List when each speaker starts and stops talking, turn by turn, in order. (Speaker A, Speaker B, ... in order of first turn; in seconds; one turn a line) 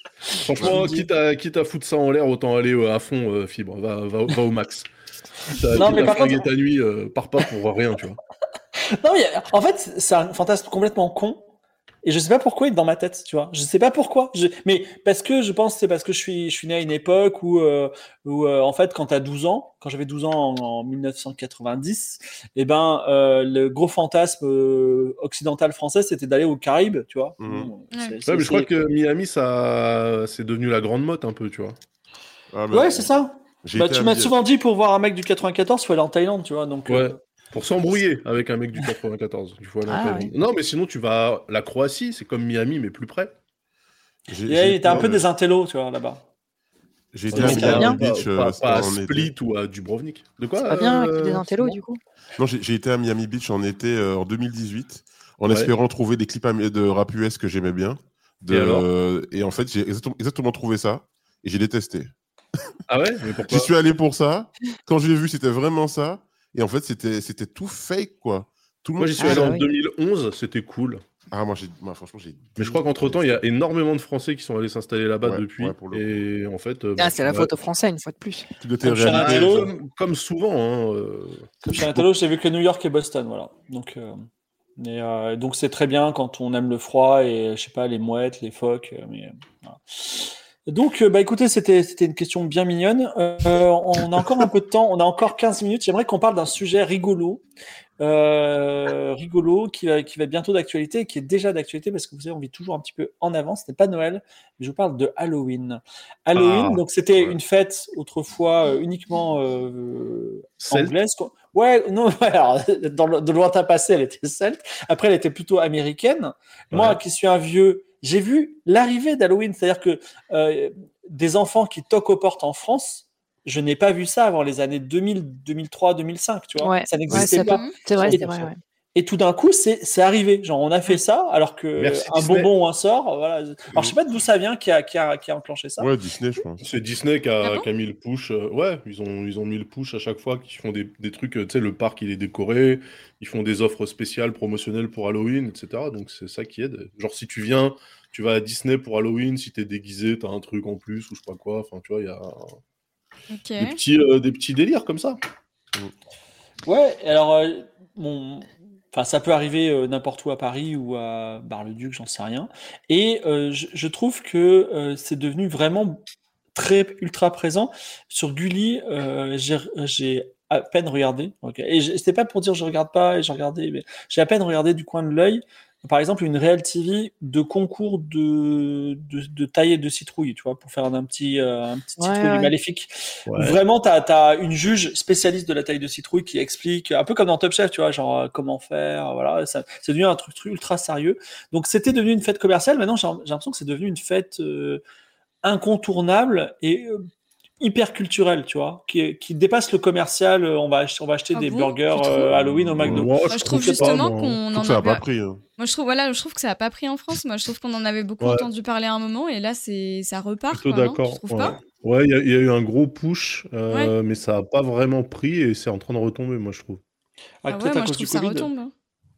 Speaker A: 0.3-1.1
Speaker B: 0.4-4.9
Speaker B: 5.5-8.2
Speaker A: 5.7-6.5
Speaker A: 8.9-11.4
Speaker A: 12.0-28.7
Speaker C: 27.4-27.7
Speaker B: 28.3-31.8
Speaker C: 32.5-33.1
Speaker A: 32.7-37.2
Speaker C: 33.6-34.4
Speaker B: 36.9-43.3
Speaker D: 39.9-40.3
Speaker C: 44.3-45.3
Speaker A: 44.5-46.2
Speaker B: 44.9-45.2
Speaker C: 47.1-49.3
Speaker B: 47.3-51.8
Speaker A: 47.3-47.9
Speaker D: 47.4-48.0
Speaker D: 50.6-52.0
Speaker C: 52.4-62.1
Speaker B: 58.5-58.9
Speaker B: 62.9-63.7
Speaker C: 63.5-69.6
Speaker B: 69.0-71.0
Speaker D: 69.2-69.7
Speaker C: 71.3-73.4
Speaker B: 72.6-77.5
Speaker C: 75.2-76.2
Speaker D: 77.0-78.5
Speaker C: 78.6-79.7
Speaker A: 78.8-79.7
Speaker B: 79.0-82.1
Speaker A: 81.6-84.2
Speaker A: 84.8-97.4
Speaker A: 98.0-135.9
Speaker B: 106.3-106.8
Speaker B: 110.6-111.0
Speaker B: 116.7-117.0
Speaker D: 126.6-128.6
Speaker E: 127.3-127.8
Speaker B: 131.8-132.5
Speaker C: 135.8-136.7
Speaker B: 136.6-152.6
Speaker E: 153.3-153.8
Speaker B: 153.6-155.2
Speaker A: 156.7-166.0
Speaker A: 166.6-194.8
Speaker D: 182.0-182.5
Speaker B: 183.3-183.6
Speaker A: 195.4-197.1
Speaker A: 197.6-203.9
Speaker E: 201.3-202.3
Speaker C: 202.3-203.2
Speaker B: 202.8-204.4
Speaker E: 203.3-205.0
Speaker C: 204.5-205.4
Speaker E: 205.6-211.6
Speaker B: 208.2-208.5
Speaker B: 210.5-216.8
Speaker A: 217.4-218.5
Speaker E: 217.5-218.7